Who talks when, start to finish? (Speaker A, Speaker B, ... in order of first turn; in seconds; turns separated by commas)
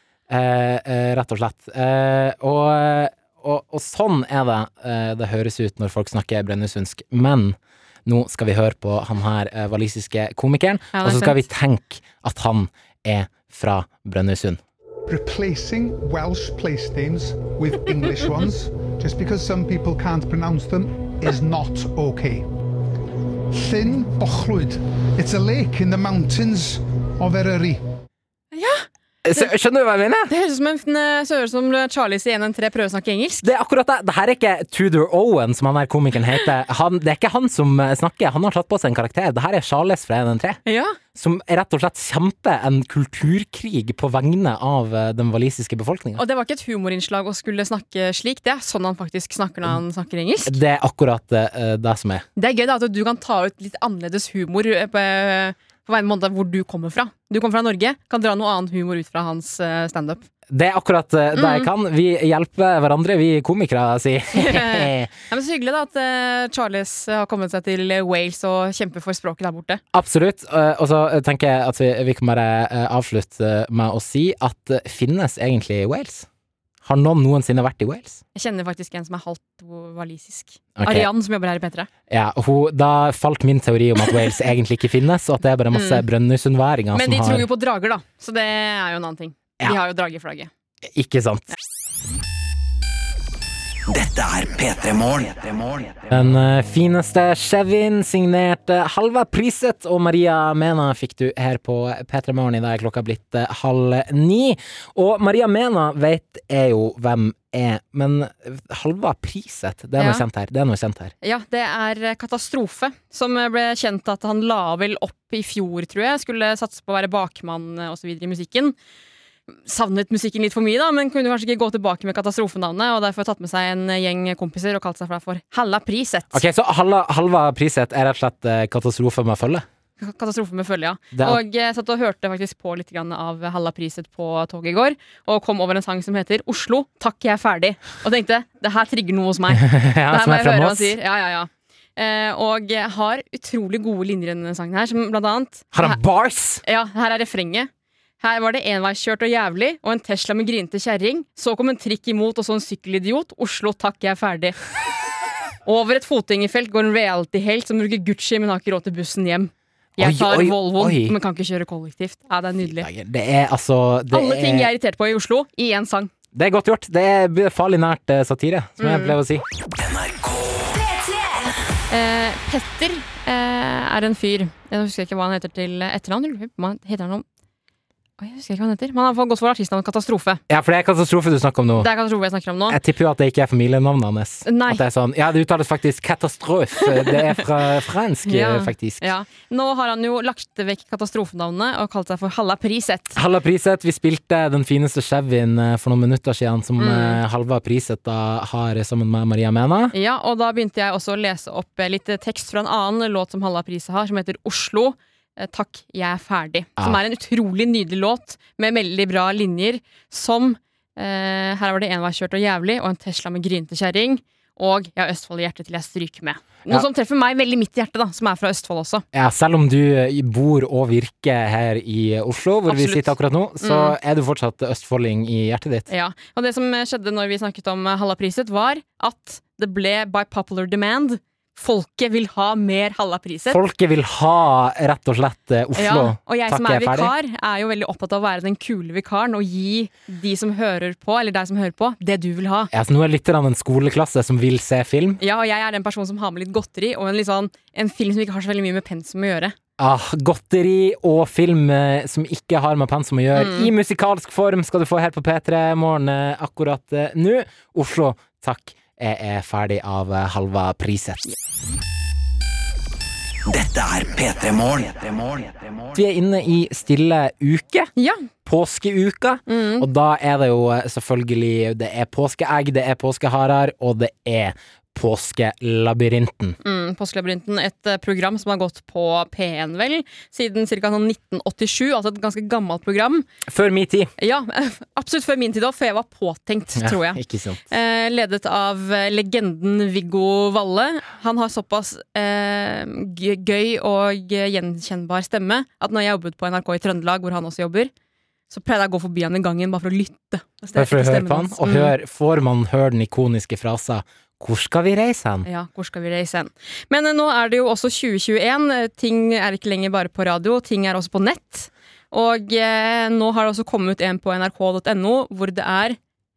Speaker A: 0.3-14.6, Speaker B: 10.9-11.4, Speaker C: 15.1-22.5, Speaker C: 23.5-27.8, Speaker B: 28.5-29.5, Speaker A: 29.2-30.3, Speaker B: 30.3-33.5, Speaker A: 33.4-40.6, Speaker B: 40.7-41.0, Speaker A: 41.1-46.2, Speaker B: 46.2-50.6, Speaker A: 50.5-52.3, Speaker B: 52.4-60.2, Speaker A: 60.5-65.1, Speaker B: 61.3-61.7, Speaker B: 64.3-69.8, Speaker A: 69.9-76.3, Speaker A: 76.8-78.2, Speaker B: 78.3-81.9, Speaker A: 80.8-81.1, Speaker A: 82.1-87.5, Speaker B: 85.7-86.0, Speaker B: 86.9-90.5, Speaker A: 90.9-91.5, Speaker D: 93.9-96.2, Speaker A: 96.1-111.1, Speaker B: 110.0-110.2, Speaker B: 111.2-118.8, Speaker B: 119.5-126.4, Speaker A: 126.3-129.7, Speaker B: 130.0-146.0, Speaker A: 131.1-131.4, Speaker A: 139.6-140.9, Speaker A: 145.7-146.6, Speaker B: 146.6-147.7, Speaker B: 148.2-154.6, Speaker B: 155.7-162.9, Speaker A: 160.0-161.2, Speaker A: 162.6-164.7, Speaker B: 164.1-166.1, Speaker A: 166.3-169.4, Speaker B: 168.8-169.2, Speaker D: 169.7-171.5, Speaker B: 171.9-177.2, Speaker B: 178.2-180.4, Speaker A: 180.5-181.9, Speaker B: 181.8-182.8, Speaker A: 182.7-189.1, Speaker B: 184.4-184.8, Speaker B: 186.9-187.2, Speaker B: 188.2-193.2, Speaker A: 193.2-199.9, Speaker B: 196.8-197.2, Speaker B: 199.9-219.0, Speaker A: 219.1-225.9, Speaker B: 222.7-224.0, Speaker B: 225.9-233.6, Speaker A: 233.5-237.1, Speaker B: 235.8-242.7, Speaker A: 242.7-245.2, Speaker B: 245.2-249.6, Speaker A: 249.8-261.3, Speaker B: 253.3-253.7, Speaker D: 263.5-266.0, Speaker A: 265.9-267.9, Speaker B: 268.0-268.3, Speaker A: 268.5-276.6, Speaker B: 269.5-269.9, Speaker B: 276.6-283.3, Speaker A: 283.5-284.1, Speaker B: 284.2-297.9, Speaker A: 286.8-287.6, Speaker B: 298.5-301.9, Speaker A: 300.8-305.5, Speaker B: 305.4-316.0